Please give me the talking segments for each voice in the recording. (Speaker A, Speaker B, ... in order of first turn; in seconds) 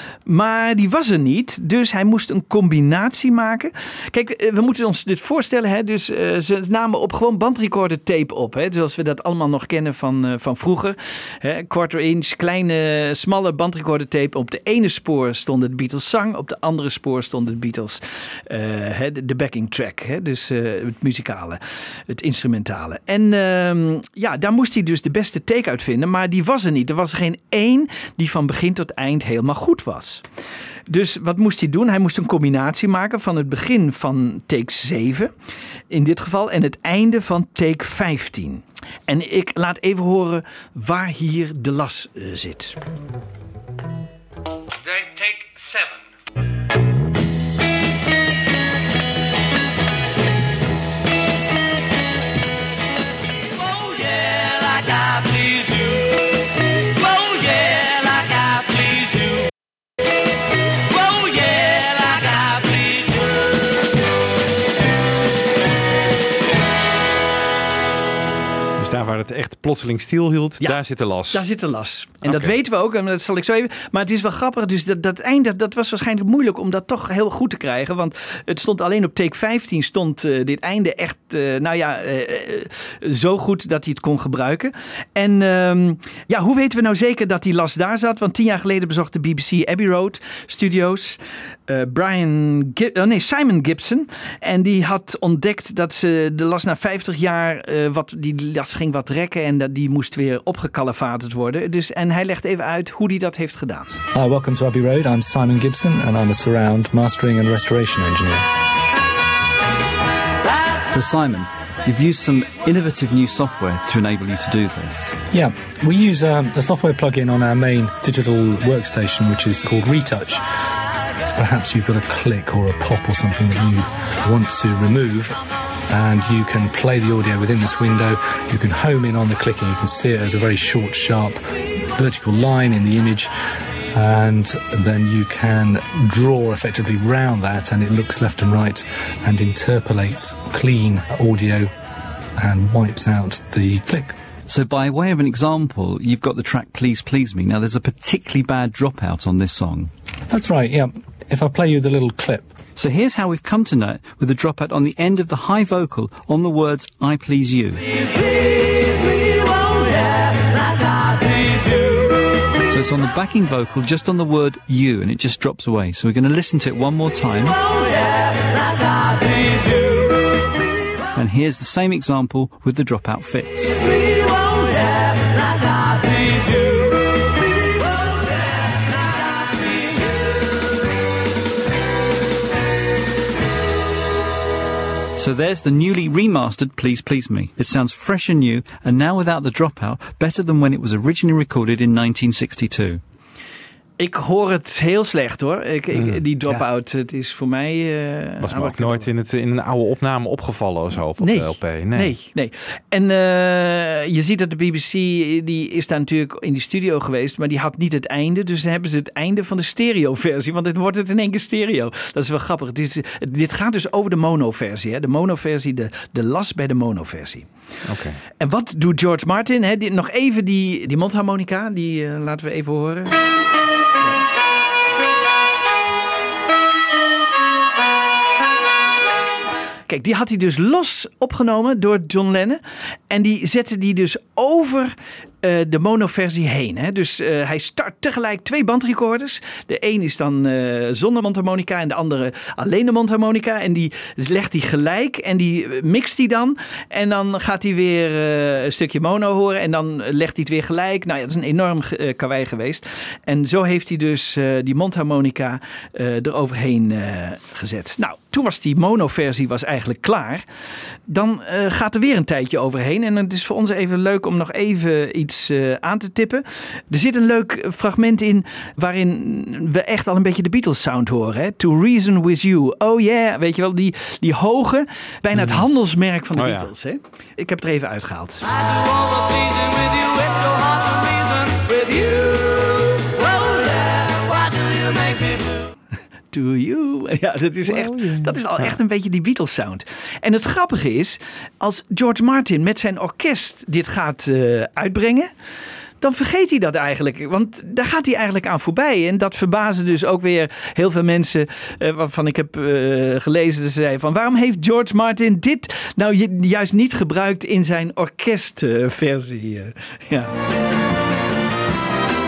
Speaker A: 0.2-30.2, 30.9-35.3, 35.9-42.8, 71.3-104.0, 194.0-199.1, 201.2-217.5, 218.4-223.2, 229.9-260.4, 261.1-278.5, 286.3-295.3, 296.0-310.3
Speaker B: 45.0-45.4, 53.7-55.7, 57.3-58.8, 61.7-62.8, 278.9-281.2, 281.9-282.6, 283.4-284.2
Speaker C: 68.8-71.4, 72.2-72.5, 198.4-202.1, 217.8-218.2, 275.4-275.6, 276.3-276.7, 288.0-288.8
Speaker D: 104.1-108.4, 115.3-120.4, 121.3-131.4, 131.9-133.3, 133.9-141.7, 142.4-144.2, 150.3-152.5
Speaker E: 110.9-115.2, 144.5-149.9, 152.8-157.8, 162.7-167.6, 171.1-173.8, 185.2-193.0